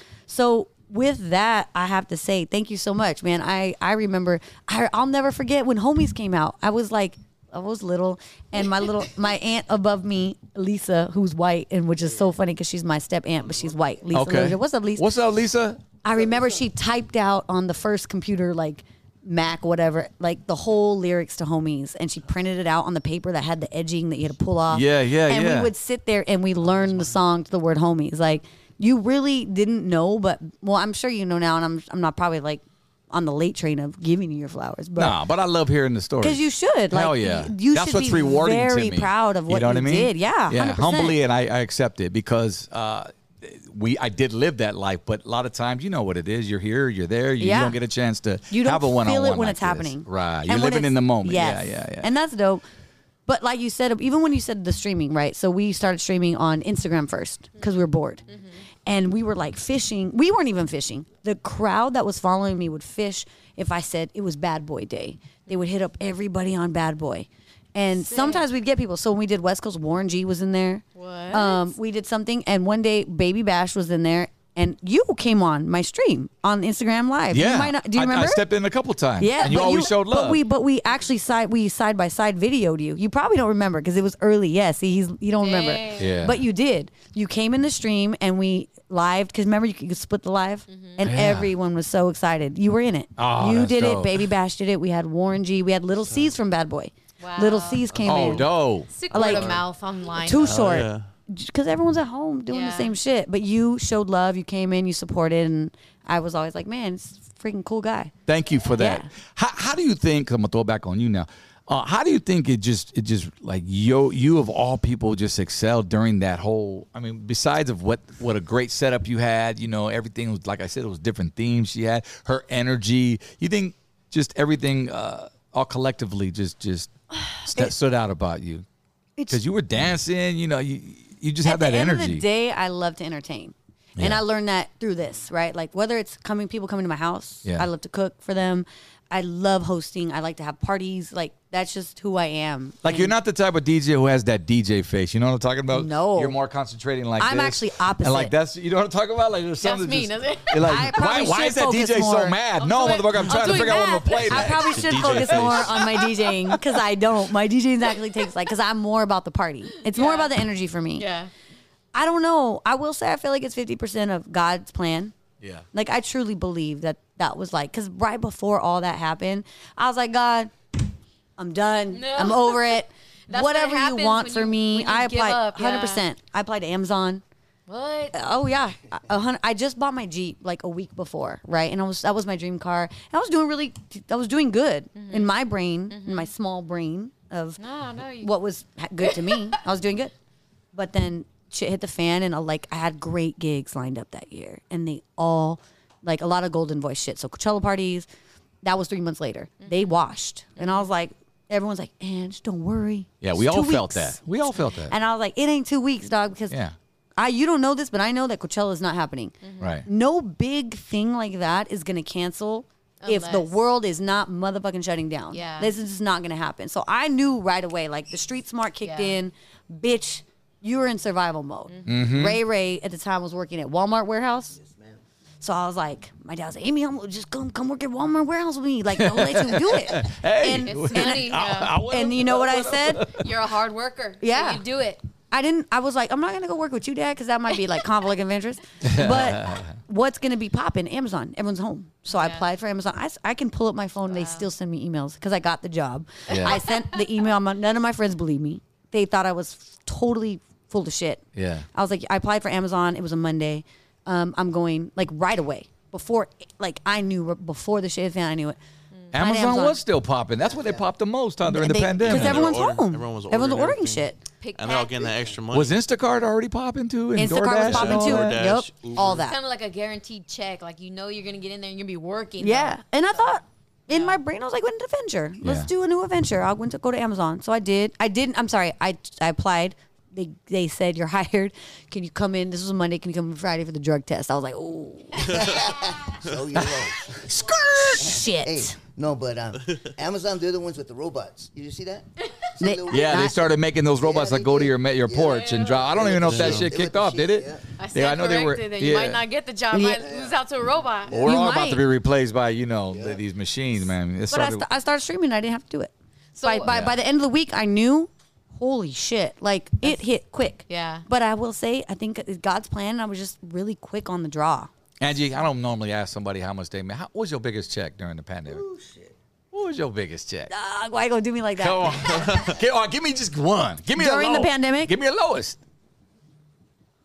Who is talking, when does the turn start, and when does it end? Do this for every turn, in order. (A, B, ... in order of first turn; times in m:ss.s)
0:00.3-0:15.1 A
0:14.1-0:15.8 B
0:16.0-0:35.2 A
0:24.7-0:25.7 B
0:35.0-0:52.1 B
0:36.2-0:41.2 A
0:47.4-0:47.8 A
0:48.5-0:52.6 A
0:53.3-0:58.2 A
0:58.3-0:58.6 C
0:58.8-1:18.5 A
1:08.0-1:08.4 C
1:11.0-1:11.7 C
1:17.3-1:20.4 B
1:19.2-1:38.5 A
1:25.4-1:26.2 C
1:26.0-1:26.4 B
1:30.7-1:31.0 C
1:31.0-1:31.5 B
1:33.2-1:34.3 B
1:37.2-1:37.9 C
1:38.0-1:39.2 B
1:38.9-1:40.6 C
1:39.1-1:39.5 A
1:39.2-1:39.6 D
1:40.2-1:48.1 A
1:40.4-1:41.1 D
1:42.5-1:43.0 C
1:48.3-2:08.6 B
1:48.8-1:49.1 A
2:07.4-2:07.7 A
2:09.3-2:12.2 B
2:11.4-2:23.1 A
2:22.8-2:36.0 B
2:25.7-2:26.4 A
2:27.2-2:28.3 A
2:29.6-2:30.9 C
2:30.7-2:32.4 A
2:32.6-2:34.6 C
2:33.3-2:41.1 A
2:34.5-2:35.8 D
2:39.8-2:40.3 C
2:41.0-2:41.3 C
2:41.9-2:45.1 A
2:45.7-2:50.5 A
2:51.4-2:57.2 A
2:51.9-2:56.0 C
2:57.7-2:58.2 C
2:58.1-3:07.6 A
3:05.0-3:05.3 C
3:05.9-3:06.3 C
3:07.6-3:08.3 C
3:08.2-3:10.1 A
3:09.0-3:09.6 C
3:10.7-3:18.1 A
3:18.6-3:24.2 A
3:19.6-3:20.0 C
3:20.6-3:20.8 C
3:23.2-3:24.9 B
3:24.9-3:26.6 A
3:27.2-3:44.6 A
3:29.4-3:29.8 C
3:29.6-3:29.8 B
3:33.0-3:33.5 C
3:35.3-3:35.7 C
3:38.8-3:39.2 C
3:41.7-3:42.1 C
3:41.9-3:42.4 B
3:44.6-3:45.0 E
3:45.4-3:53.1 A
3:49.0-3:53.3 B
3:50.7-3:51.8 C
3:53.0-3:55.0 C
3:54.2-3:54.6 A
3:55.3-4:11.2 A
3:58.8-3:59.7 B
4:02.1-4:02.4 C
4:04.1-4:04.5 C
4:06.3-4:06.6 B
4:06.3-4:07.0 C
4:11.4-4:11.7 B
4:11.7-4:18.6 A
4:19.1-4:19.8 A
4:19.1-4:22.5 B
4:20.5-4:20.8 E
4:21.4-4:24.2 A
4:22.0-4:25.8 D
4:24.4-4:25.1 C
4:25.5-4:28.4 B
4:27.2-4:29.4 A
4:27.6-4:29.3 D
4:29.3-4:32.8 C
4:32.4-4:45.5 A
4:33.9-4:34.2 C
4:35.4-4:35.7 B
4:45.3-4:47.2 E
4:47.2-4:47.9 B
4:47.3-4:48.8 A
4:48.0-4:57.7 E
4:52.6-4:53.4 A
4:52.9-4:59.2 B
4:55.3-4:55.8 C
4:56.3-4:56.7 D
4:57.8-5:01.2 C
4:59.7-5:00.0 A
5:00.0-5:00.4 E
5:01.0-5:01.4 E
5:01.1-5:04.6 B
5:01.2-5:01.8 A
5:02.9-5:03.2 E
5:04.3-5:05.9 A
5:06.4-5:06.7 C
5:06.4-5:14.7 A
5:06.7-5:07.0 B
5:10.7-5:11.0 C
5:15.0-5:18.6 B
5:18.5-5:19.1 E
5:19.5-5:20.5 B
5:20.5-5:22.4 A
5:21.6-5:25.6 B
5:24.0-5:24.9 A